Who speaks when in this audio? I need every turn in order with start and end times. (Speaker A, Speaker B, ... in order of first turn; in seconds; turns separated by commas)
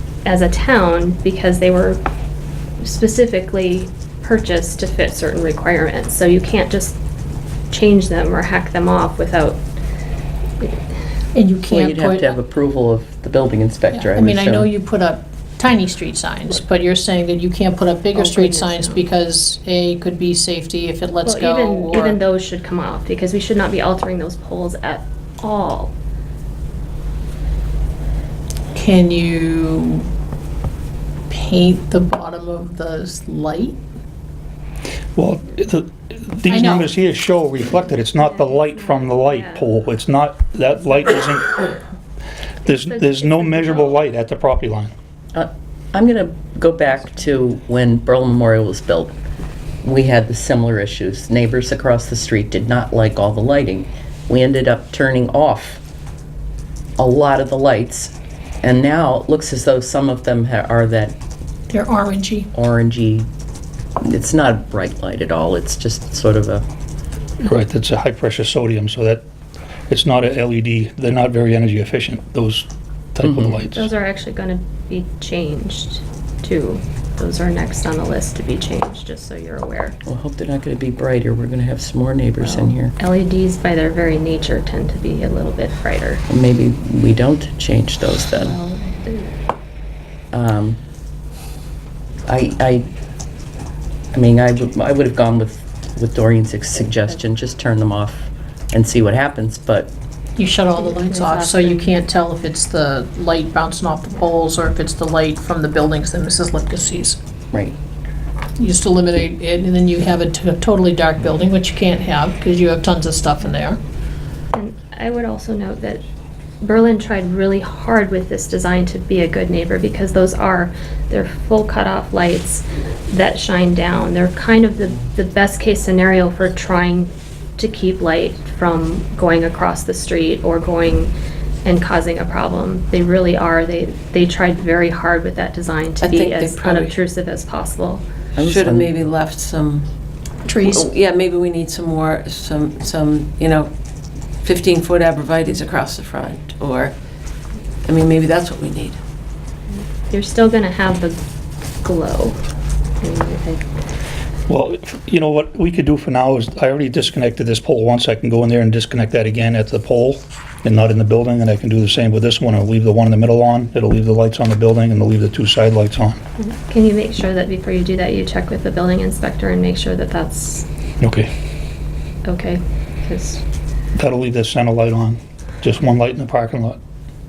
Speaker A: 0.2-2.0, Speaker A: 2.8-7.0, Speaker A: 7.7-9.6, Speaker B: 11.3-12.3, Speaker C: 11.7-14.7, Speaker B: 13.9-22.2, Speaker A: 18.1-19.0, Speaker A: 21.2-25.9, Speaker B: 28.7-30.1, Speaker B: 31.3-33.8, Speaker D: 35.1-41.7, Speaker B: 36.5-36.9, Speaker A: 38.2-39.7, Speaker A: 42.6-44.0, Speaker D: 42.6-44.9, Speaker C: 45.3-49.1, Speaker C: 49.8-55.8, Speaker C: 57.0-61.1, Speaker B: 61.7-62.5, Speaker C: 62.5-63.3, Speaker C: 64.0-66.6, Speaker D: 67.4-69.2, Speaker D: 69.9-73.9, Speaker C: 73.2-73.6, Speaker A: 73.7-80.0, Speaker C: 80.0-82.9, Speaker A: 82.4-86.2, Speaker C: 86.3-88.5, Speaker A: 88.4-89.3, Speaker C: 90.3-90.8, Speaker C: 92.3-92.9, Speaker C: 94.1-99.9, Speaker B: 100.3-107.2, Speaker A: 100.8-101.9, Speaker B: 108.6-113.8, Speaker A: 114.5-116.0, Speaker A: 116.6-131.1, Speaker A: 131.6-138.0, Speaker E: 136.0-136.9, Speaker C: 138.3-138.9, Speaker E: 138.4-139.9, Speaker B: 140.4-140.9, Speaker E: 140.6-143.7, Speaker E: 144.4-146.9, Speaker E: 147.8-149.0, Speaker A: 149.7-151.2, Speaker A: 151.8-152.4, Speaker A: 153.0-153.6, Speaker D: 154.5-166.2, Speaker A: 166.4-170.7, Speaker D: 171.0-171.3, Speaker A: 172.2-173.4, Speaker D: 173.9-176.8